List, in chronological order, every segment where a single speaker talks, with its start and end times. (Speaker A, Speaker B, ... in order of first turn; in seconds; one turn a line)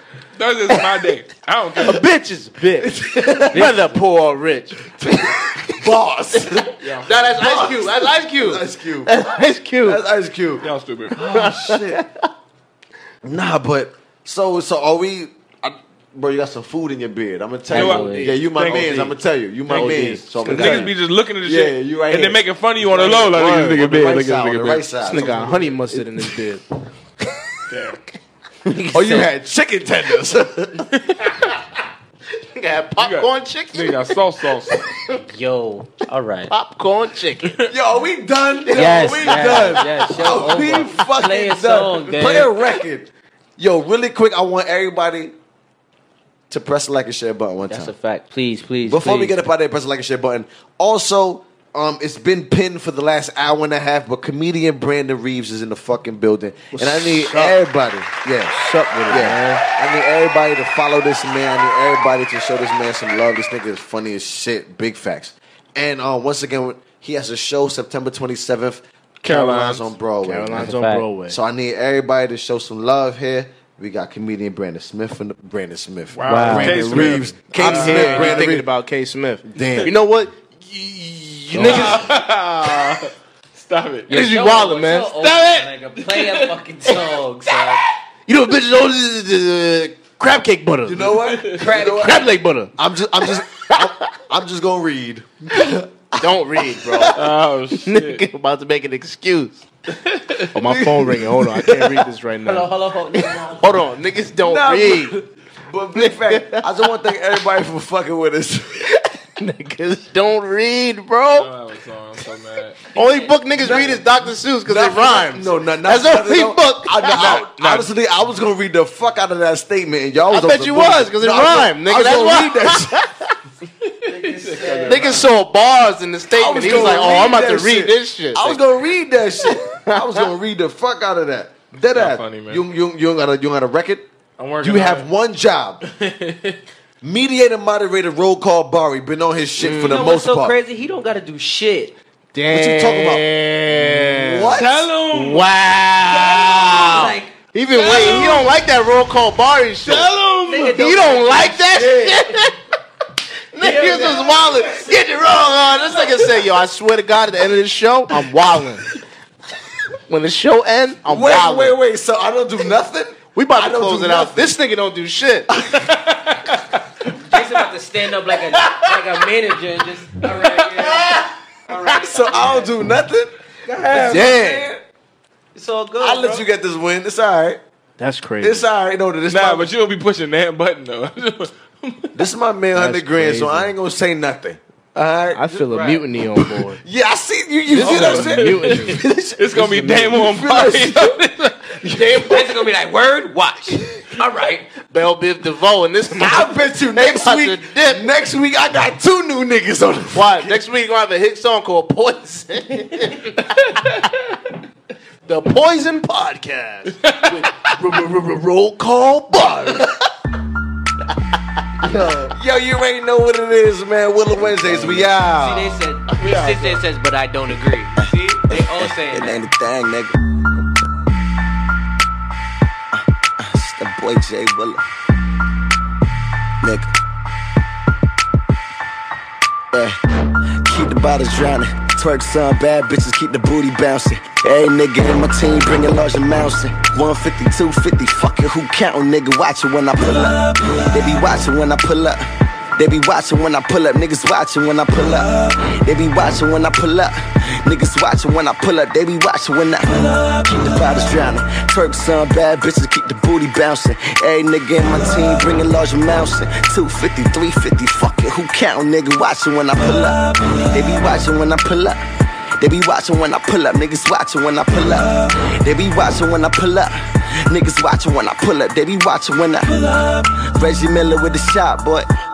Speaker A: 0.4-2.0
Speaker B: 1.8-5.7
Speaker C: 2.8-3.8
Speaker D: 3.5-3.9
Speaker C: 4.9-9.2
Speaker B: 6.4-10.0
Speaker C: 9.8-12.0
Speaker A: 10.6-11.1
Speaker B: 11.2-12.1
Speaker C: 13.2-22.4
Speaker D: 17.7-18.9
Speaker A: 17.7-19.1
Speaker B: 17.8-18.3
Speaker A: 19.7-24.9
Speaker B: 19.7-20.9
Speaker B: 22.8-23.8
Speaker C: 23.1-26.1
Speaker B: 25.1-26.6
Speaker A: 27.7-28.0
Speaker D: 28.6-29.3
Speaker C: 28.9-30.9
Speaker B: 32.5-35.2
Speaker A: 33.0-34.8
Speaker D: 35.2-36.5
Speaker B: 36.5-37.6
Speaker C: 37.7-45.3
Speaker B: 38.7-39.8
Speaker D: 38.7-42.6
Speaker C: 46.5-47.9
Speaker D: 47.7-49.4
Speaker C: 48.9-70.7
Speaker B: 56.7-57.5
Speaker B: 58.5-59.6
Speaker A: 69.2-69.9
Speaker B: 70.2-71.4
Speaker D: 70.6-71.1
Speaker C: 71.3-78.7
Speaker A: 76.2-78.4
Speaker D: 76.3-77.1
Speaker B: 76.5-82.7
Speaker C: 79.5-79.9
Speaker C: 81.5-82.1
Speaker A: 81.6-84.1
Speaker D: 84.1-87.8
Speaker B: 84.1-85.2
Speaker A: 85.2-86.5
Speaker B: 88.3-92.7
Speaker C: 90.8-97.3
Speaker A: 91.2-91.7
Speaker D: 91.5-92.3
Speaker B: 93.3-93.9
Speaker B: 96.2-97.2
Speaker A: 97.1-98.3
Speaker B: 97.8-99.7
Speaker A: 99.9-100.5
Speaker B: 100.5-105.2
Speaker C: 100.6-101.5
Speaker D: 102.5-103.8
Speaker C: 104.4-108.9
Speaker B: 106.0-107.1
Speaker B: 108.9-111.5
Speaker A: 111.4-112.8
Speaker B: 112.9-117.4
Speaker D: 113.0-113.3
Speaker C: 113.6-114.1
Speaker C: 114.6-123.1
Speaker A: 117.1-117.9
Speaker B: 120.3-123.2
Speaker A: 123.9-125.3
Speaker D: 124.1-125.2
Speaker B: 124.8-128.6
Speaker C: 126.3-134.1
Speaker B: 129.4-130.3
Speaker A: 131.9-132.6
Speaker A: 134.4-135.1
Speaker C: 134.6-135.8
Speaker A: 135.8-136.6
Speaker C: 137.0-140.6
Speaker B: 139.6-140.1
Speaker D: 139.8-141.9
Speaker B: 142.3-144.6
Speaker C: 142.5-143.2
Speaker C: 144.2-144.9
Speaker A: 144.5-145.4
Speaker B: 145.1-152.6
Speaker D: 146.1-148.4
Speaker A: 147.7-148.5
Speaker A: 149.8-150.8
Speaker D: 150.5-151.9
Speaker C: 151.8-152.3
Speaker B: 153.5-158.9
Speaker D: 153.6-154.7
Speaker B: 160.1-161.8
Speaker C: 161.1-164.6
Speaker B: 163.3-165.5
Speaker C: 165.6-165.9
Speaker A: 165.9-166.6
Speaker D: 167.3-172.7
Speaker C: 171.7-173.3
Speaker D: 173.7-174.7
Speaker A: 173.8-174.2
Speaker B: 173.9-174.7
Speaker C: 174.0-174.8
Speaker D: 175.6-176.5
Speaker C: 176.0-177.6
Speaker B: 178.0-178.7
Speaker C: 178.4-179.7
Speaker A: 179.3-182.2
Speaker C: 182.2-185.8
Speaker B: 182.8-183.7
Speaker B: 185.3-186.8
Speaker D: 185.7-186.0
Speaker C: 186.4-191.2
Speaker B: 187.7-190.1
Speaker A: 187.8-191.6
Speaker C: 191.8-192.6
Speaker D: 191.9-194.7
Speaker B: 194.9-198.1
Speaker C: 196.1-200.6
Speaker B: 200.1-203.8
Speaker A: 203.8-204.1
Speaker B: 205.3-209.9
Speaker A: 207.0-207.5
Speaker C: 209.3-209.9
Speaker C: 211.8-215.8
Speaker D: 214.7-219.4
Speaker A: 216.2-216.8
Speaker E: 218.6-220.2
Speaker E: 223.4-224.8
Speaker E: 226.6-226.9
Speaker E: 230.7-242.2
Speaker E: 242.8-262.0
Speaker E: 262.6-272.1